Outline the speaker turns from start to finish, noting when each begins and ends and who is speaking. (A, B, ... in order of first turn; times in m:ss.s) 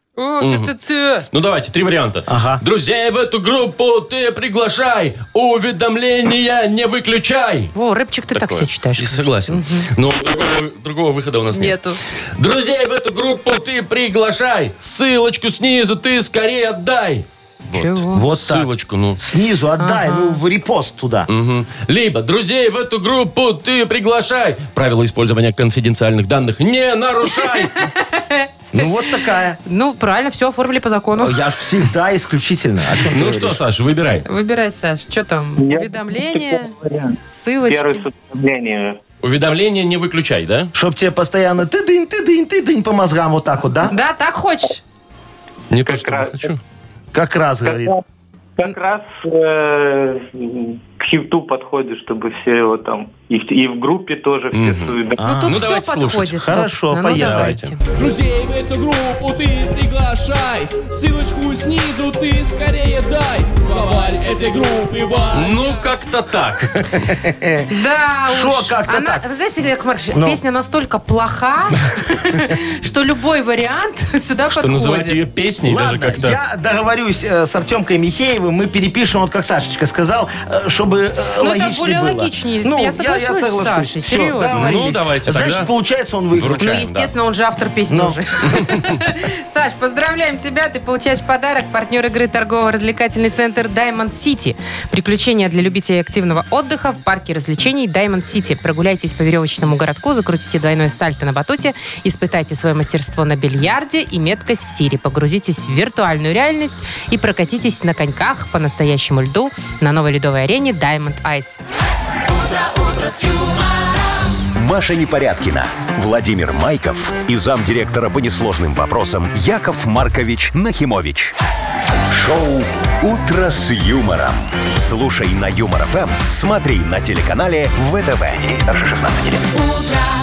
0:00.2-0:01.3 A
0:00.4-0:00.7 B
0:01.3-0:07.7 B
0:02.3-0:02.6 C
0:07.7-0:09.9 A
0:08.3-0:11.8 B
0:11.5-0:12.0 A
0:12.4-0:19.2 B
0:17.7-0:18.2 A
0:18.1-0:21.3 C
0:19.8-0:20.4 A
0:21.3-0:27.9 B
0:27.7-0:28.5 A
0:28.7-0:29.6 C
0:29.6-0:31.4 A
0:31.2-0:33.6 C
0:33.1-0:34.2 B
0:34.2-0:36.7 A
0:35.6-0:39.0 D
0:37.3-0:38.1 A
0:39.2-0:40.7 B
0:40.7-0:44.0 C
0:43.9-0:44.8 A
0:45.7-0:46.6 B
0:45.8-0:46.5 D
0:47.1-0:47.9 C
0:47.6-0:48.0 D
0:48.6-0:55.2 D
0:54.5-0:55.0 B
0:55.2-0:55.6 C
0:55.2-0:57.8 A
0:55.5-0:56.4 B
0:56.3-0:57.6 C
0:57.1-0:57.7 B
0:58.0-1:05.9 E
1:05.3-1:06.8 B
1:07.1-1:07.7 C
1:07.7-1:15.2 A
1:08.3-1:09.2 C
1:10.1-1:10.4 C
1:14.5-1:16.4 B
1:15.6-1:26.8 C
1:21.4-1:24.6 A
1:24.5-1:25.7 B
1:26.3-1:27.1 B
1:26.6-1:51.6 A
1:27.9-1:28.2 C
1:54.5-2:01.3 F
2:02.1-2:09.5 F